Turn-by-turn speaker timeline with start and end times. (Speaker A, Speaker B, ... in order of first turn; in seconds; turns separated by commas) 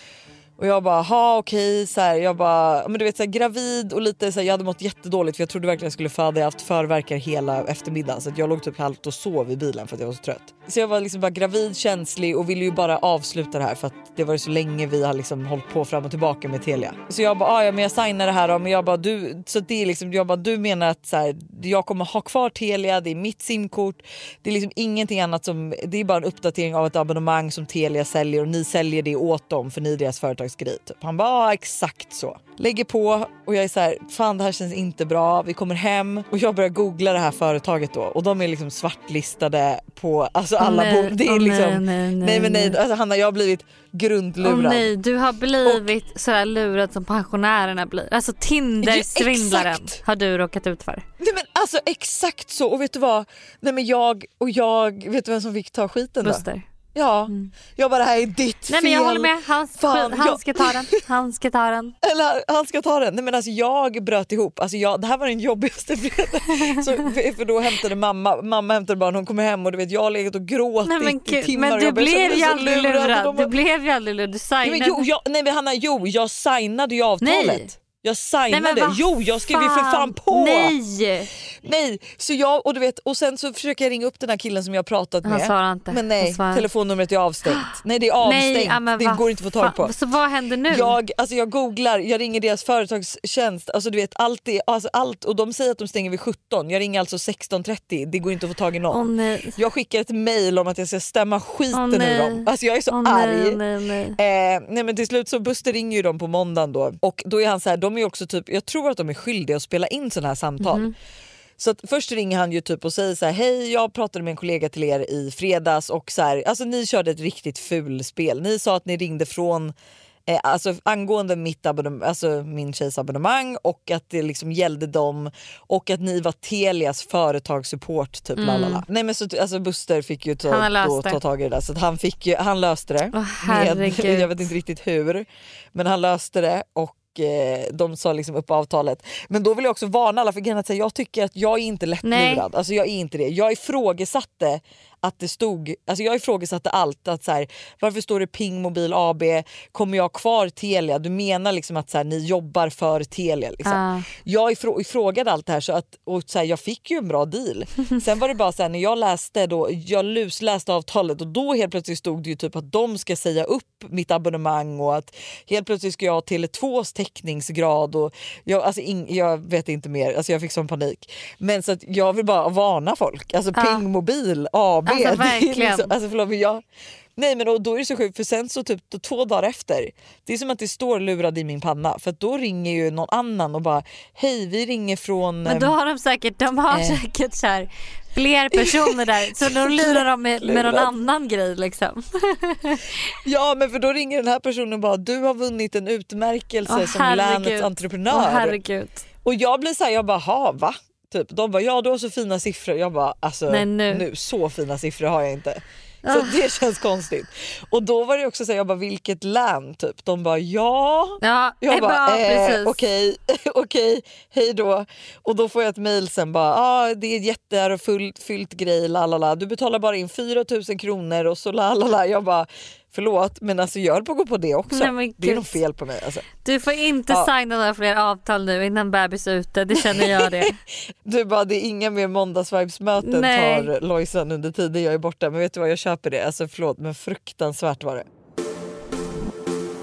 Speaker A: 0.6-44.9, Speaker B: 40.6-42.8, Speaker B: 44.4-51.0, Speaker A: 48.8-50.0, Speaker A: 51.2-60.9, Speaker B: 56.2-56.6, Speaker B: 58.7-61.9, Speaker A: 62.0-73.5, Speaker B: 70.8-75.1, Speaker A: 74.6-80.8, Speaker B: 77.2-77.7, Speaker B: 78.5-81.3, Speaker A: 81.6-89.9, Speaker B: 85.2-86.7, Speaker B: 87.5-91.0, Speaker A: 90.7-103.6, Speaker B: 98.9-99.6, Speaker B: 101.7-104.2, Speaker A: 104.2-110.9, Speaker B: 110.6-110.9, Speaker A: 111.6-119.7, Speaker A: 120.3-176.6, Speaker B: 128.4-128.8, Speaker B: 130.5-131.2, Speaker B: 133.1-134.4, Speaker B: 142.0-142.4, Speaker B: 153.6-154.1, Speaker B: 173.5-173.8, Speaker B: 174.9-175.9, Speaker A: 177.2-185.7, Speaker B: 185.4-193.0, Speaker A: 186.7-187.0, Speaker A: 188.5-190.9, Speaker A: 193.2-198.6, Speaker B: 196.7-199.0, Speaker A: 199.2-226.2, Speaker B: 203.5-204.0, Speaker B: 206.0-206.4, Speaker B: 211.2-212.8, Speaker B: 224.7-225.5, Speaker B: 226.4-230.5, Speaker A: 229.7-230.5, Speaker A: 231.0-238.0, Speaker B: 233.0-233.7